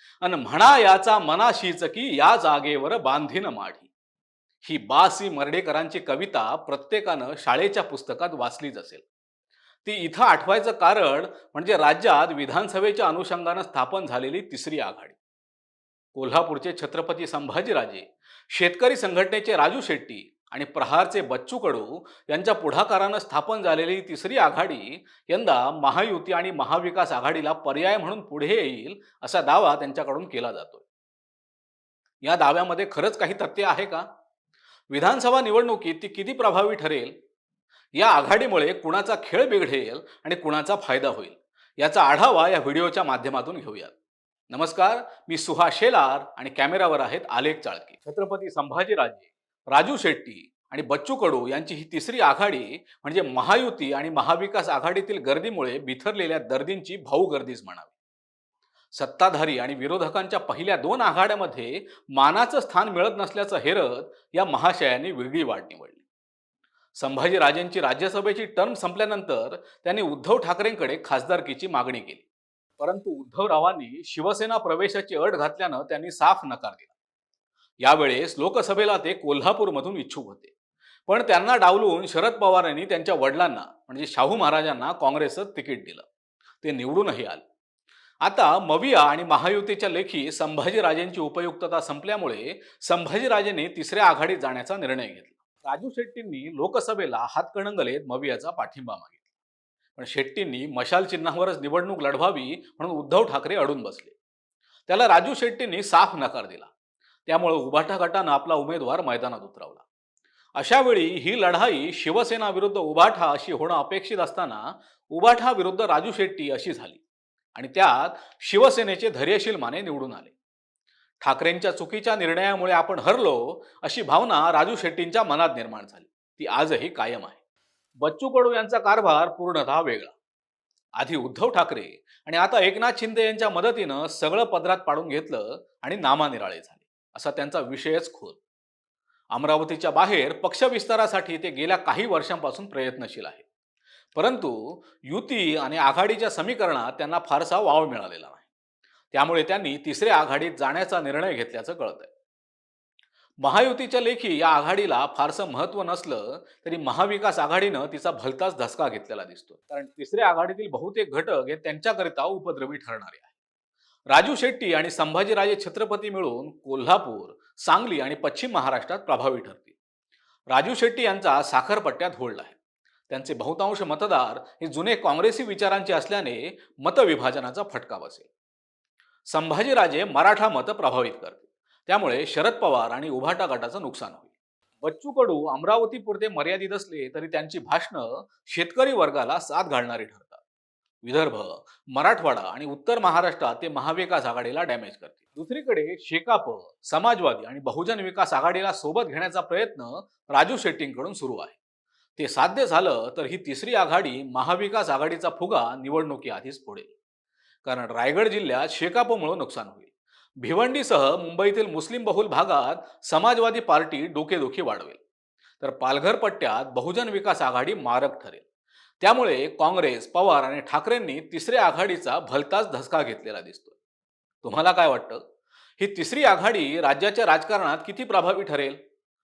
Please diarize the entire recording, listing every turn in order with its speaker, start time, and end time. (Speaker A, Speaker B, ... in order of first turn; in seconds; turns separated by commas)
Speaker A: 0.2-3.9, Speaker A: 4.6-9.0, Speaker A: 9.8-15.2, Speaker A: 16.1-30.8, Speaker A: 32.2-34.0, Speaker A: 34.9-37.1, Speaker A: 38.0-43.9, Speaker A: 44.5-57.9, Speaker A: 59.0-66.0, Speaker A: 67.0-72.2, Speaker A: 72.8-76.9, Speaker A: 77.8-80.5, Speaker A: 81.1-86.0, Speaker A: 86.6-87.4, Speaker A: 88.2-99.2, Speaker A: 100.0-104.1, Speaker A: 104.9-106.7, Speaker A: 107.3-109.8, Speaker A: 110.6-117.0, Speaker A: 117.5-120.3, Speaker A: 121.2-127.4, Speaker A: 128.0-130.1, Speaker A: 131.0-138.4, Speaker A: 139.3-143.4, Speaker A: 144.1-148.4, Speaker A: 149.1-152.1, Speaker A: 153.4-163.3, Speaker A: 164.1-169.7, Speaker A: 170.5-172.6, Speaker A: 173.1-178.3, Speaker A: 179.3-184.3, Speaker A: 184.8-190.4, Speaker A: 191.0-201.6, Speaker A: 202.2-206.9, Speaker A: 207.6-209.9, Speaker A: 210.4-215.0, Speaker A: 215.6-218.4, Speaker A: 219.0-223.7, Speaker A: 224.4-225.2, Speaker A: 225.8-228.8